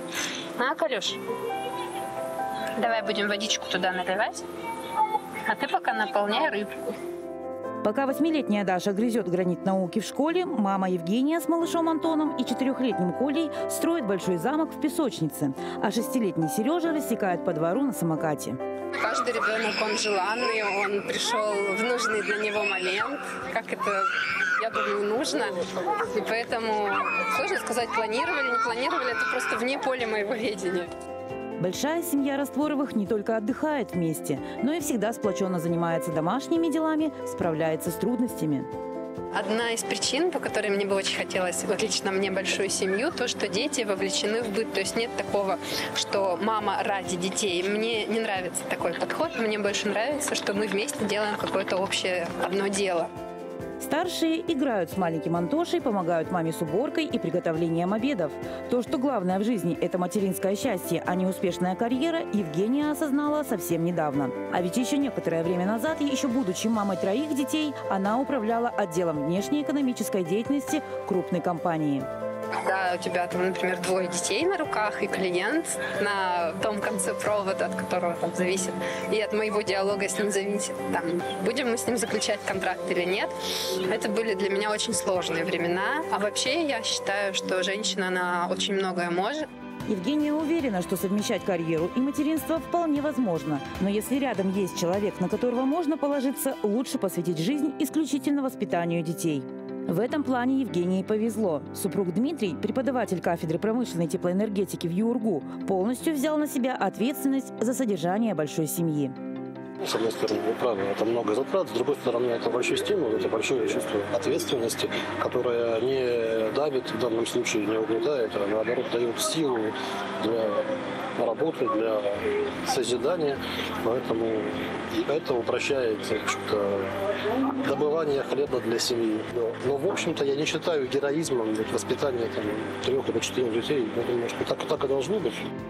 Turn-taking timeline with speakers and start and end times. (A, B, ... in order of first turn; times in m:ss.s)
0:00.6-0:01.2 A
0:02.7-0:06.9 A
0:07.8-0:18.6 B
0:19.0-0:30.9 A
0:31.6-0:38.7 B
0:39.3-0:53.1 A
0:53.8-1:12.1 B
1:12.6-1:29.4 A
1:29.9-1:49.2 B
1:49.8-2:15.5 C